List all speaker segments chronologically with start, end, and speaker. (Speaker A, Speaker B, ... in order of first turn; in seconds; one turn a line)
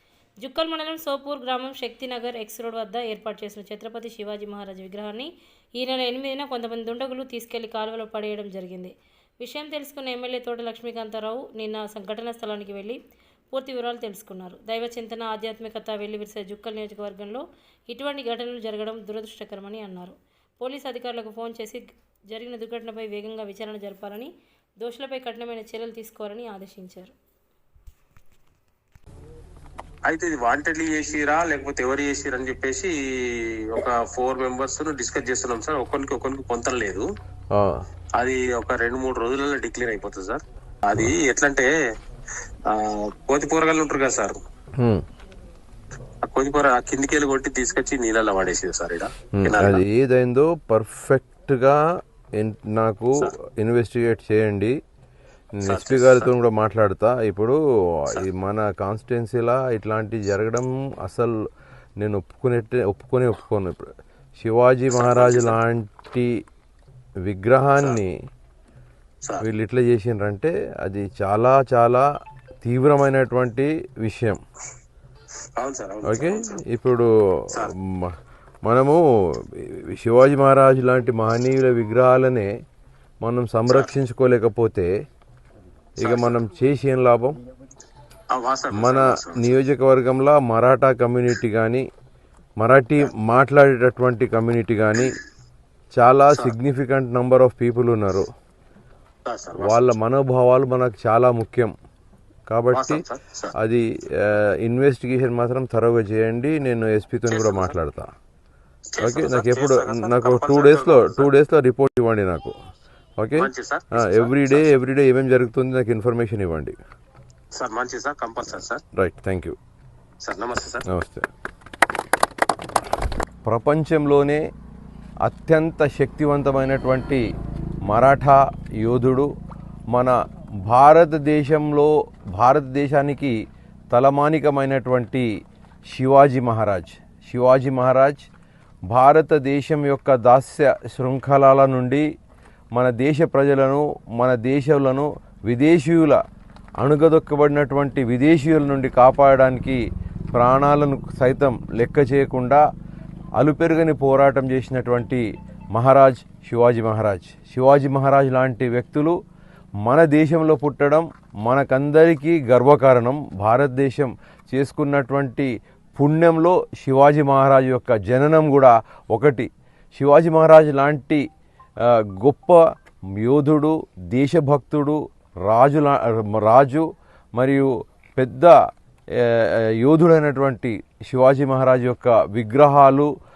Speaker A: 0.4-13.0
Speaker A: 13.5-27.1
Speaker B: 30.1-37.1
Speaker C: 37.5-37.8
Speaker B: 38.1-41.7
Speaker B: 42.6-44.4
Speaker C: 44.8-45.0
Speaker B: 46.2-49.8
Speaker C: 49.3-51.8
Speaker C: 52.4-54.8
Speaker C: 55.5-61.4
Speaker B: 55.6-56.3
Speaker C: 62.0-66.3
Speaker B: 64.9-65.6
Speaker C: 67.3-68.1
Speaker C: 69.4-72.0
Speaker C: 72.6-74.4
Speaker B: 75.6-76.6
Speaker C: 76.0-82.5
Speaker C: 83.2-84.9
Speaker B: 83.7-83.9
Speaker B: 86.0-86.4
Speaker C: 86.0-87.4
Speaker B: 88.3-89.5
Speaker C: 88.7-91.8
Speaker C: 92.6-95.2
Speaker C: 95.9-98.3
Speaker B: 96.3-96.5
Speaker B: 99.2-100.0
Speaker C: 99.6-101.7
Speaker C: 102.5-103.0
Speaker B: 102.7-103.5
Speaker C: 103.5-108.1
Speaker B: 107.3-107.7
Speaker B: 108.9-111.3
Speaker C: 109.0-112.5
Speaker C: 113.2-116.7
Speaker B: 113.3-114.8
Speaker B: 117.5-118.8
Speaker C: 118.9-119.6
Speaker B: 120.2-120.8
Speaker C: 120.9-121.3
Speaker C: 123.4-124.4
Speaker C: 125.2-127.2
Speaker C: 127.9-129.3
Speaker C: 129.9-133.4
Speaker C: 133.9-135.3
Speaker C: 135.9-138.2
Speaker C: 138.9-142.1
Speaker C: 142.7-146.2
Speaker C: 146.8-152.6
Speaker C: 153.3-159.2
Speaker C: 159.8-171.2
Speaker C: 171.8-172.6
Speaker C: 173.2-178.5
Speaker C: 179.1-183.1